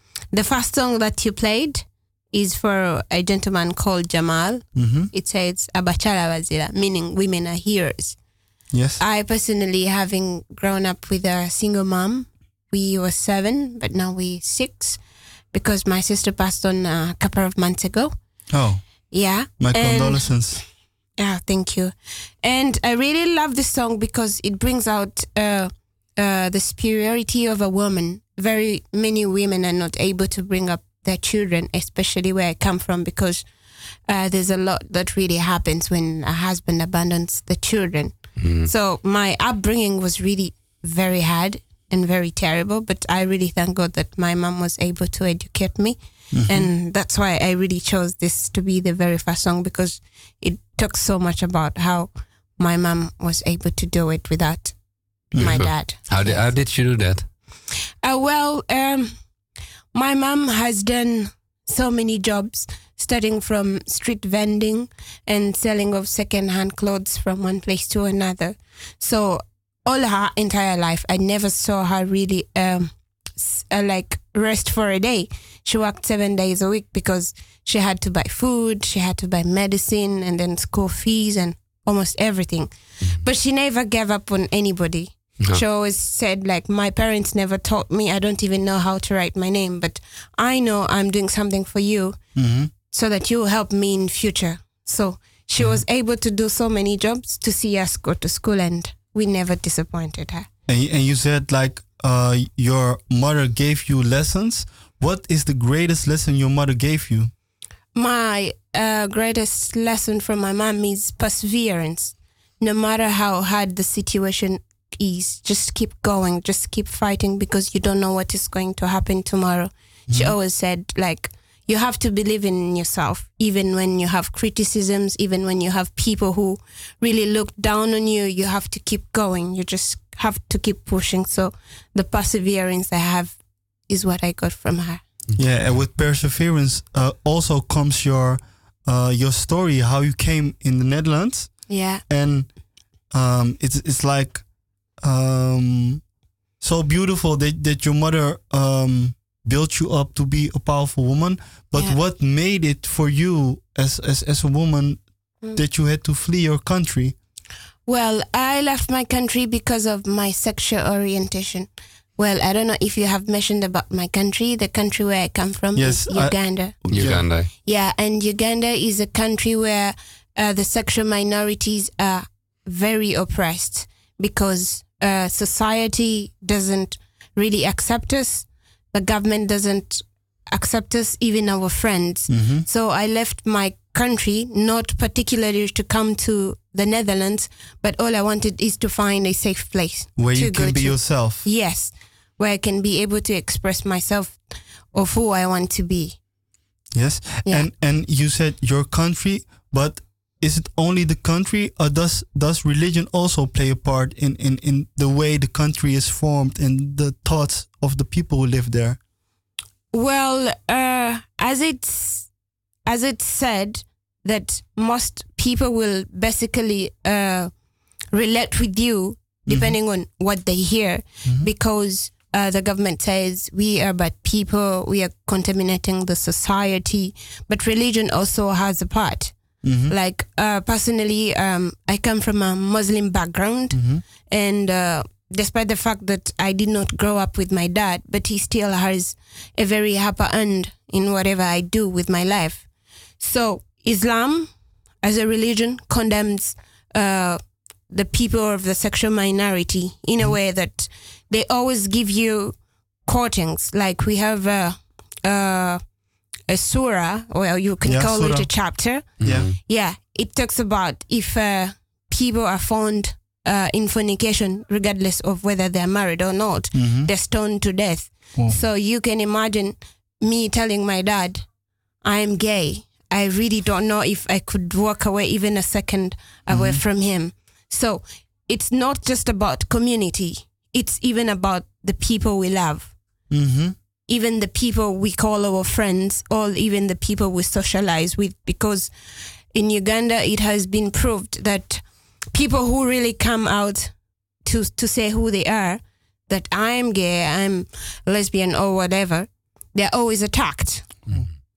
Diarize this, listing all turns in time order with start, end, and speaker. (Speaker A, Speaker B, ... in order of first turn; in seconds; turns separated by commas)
Speaker A: 0.3-8.2, Speaker B: 4.7-5.1, Speaker B: 8.7-9.0, Speaker A: 9.0-15.0, Speaker A: 15.5-18.1, Speaker B: 18.5-18.8, Speaker A: 19.1-20.6, Speaker B: 19.6-20.6, Speaker A: 21.2-33.4, Speaker A: 34.1-54.8, Speaker C: 38.4-38.7, Speaker B: 46.3-46.7, Speaker B: 55.3-55.6, Speaker A: 55.3-56.5, Speaker C: 55.4-57.3, Speaker A: 58.0-59.1, Speaker A: 59.9-92.2, Speaker B: 92.3-92.7, Speaker A: 92.9-100.5, Speaker B: 100.7-107.3, Speaker A: 107.9-133.4, Speaker B: 120.1-120.3, Speaker A: 133.9-135.0, Speaker C: 135.3-135.7, Speaker B: 135.4-142.6, Speaker A: 141.7-142.0, Speaker B: 143.1-144.4, Speaker B: 145.0-146.0, Speaker B: 146.6-157.1, Speaker A: 157.8-166.8, Speaker B: 165.8-167.3, Speaker C: 166.9-167.5, Speaker A: 167.6-194.4, Speaker B: 182.3-182.6, Speaker B: 190.2-191.4, Speaker A: 194.9-196.2, Speaker B: 196.9-209.0, Speaker A: 209.9-212.3, Speaker A: 212.8-217.5, Speaker A: 218.1-229.3, Speaker B: 219.4-219.7, Speaker B: 229.6-229.9, Speaker A: 229.9-242.7, Speaker B: 233.7-234.0, Speaker A: 243.2-244.5, Speaker A: 245.0-255.8, Speaker A: 256.5-271.4, Speaker B: 257.8-259.5, Speaker C: 259.2-259.5, Speaker B: 266.7-267.1, Speaker A: 272.0-282.9, Speaker B: 276.5-276.8, Speaker B: 283.3-283.7, Speaker A: 284.1-288.9, Speaker A: 289.5-300.9